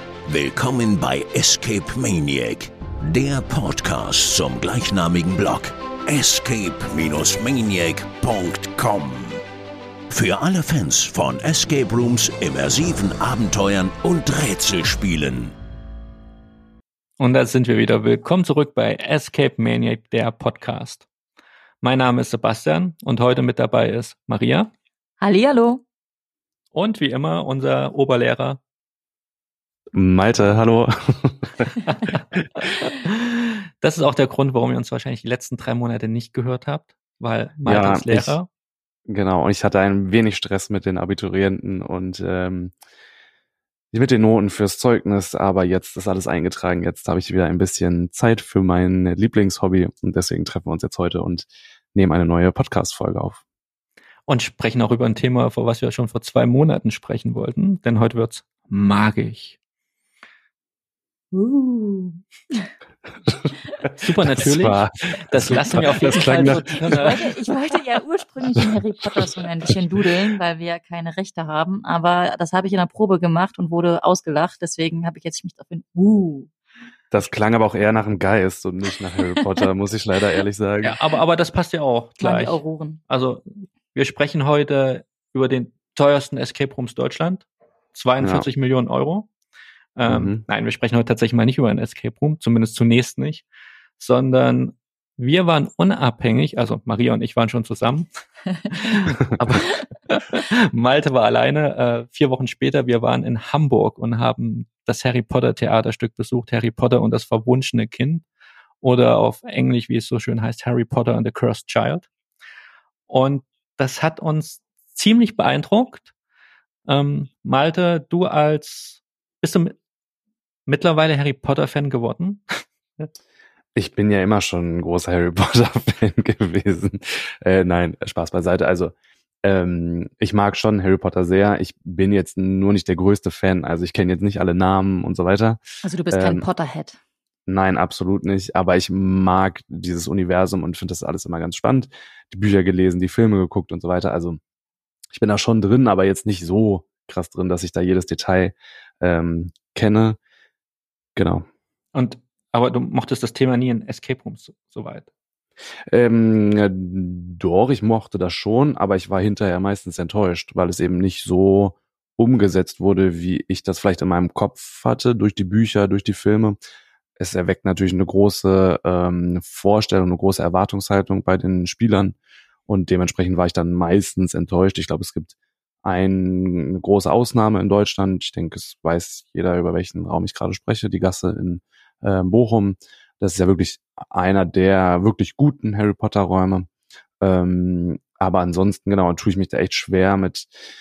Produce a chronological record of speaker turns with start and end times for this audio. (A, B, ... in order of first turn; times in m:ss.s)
0:00.2-0:09.4 A
0:10.1-0:15.6 A
0:17.2-0:21.0 B
0:21.8-0:24.7 B
0:25.2-0:25.8 C
0:26.7-0:28.6 B
0:29.9-0:31.7 D
0:31.9-0:32.2 B
0:32.9-0:38.5 B
0:37.6-0:38.3 D
0:39.1-0:42.7 D
0:43.9-0:53.4 D
0:54.3-0:59.6 B
1:01.3-1:02.6 C
1:03.8-1:07.1 D
1:04.0-1:07.2 B
1:06.9-1:16.5 C
1:17.1-1:21.0 D
1:20.8-1:29.3 B
1:22.2-1:23.0 C
1:28.2-1:28.5 D
1:30.0-1:33.4 B
1:30.1-1:30.4 D
1:34.0-1:38.1 B
1:38.7-1:48.2 B
1:48.8-1:52.1 B
1:53.1-1:56.1 B
1:56.8-1:59.8 B
2:00.6-2:02.4 B
2:03.8-2:16.4 D
2:15.8-2:17.0 C
2:17.5-2:24.4 D
2:25.1-2:30.2 D
2:31.2-2:31.4 D
2:31.9-2:35.1 B
2:35.9-2:46.6 D
2:47.2-2:52.2 D
2:52.7-3:06.7 D
3:07.2-3:10.5 D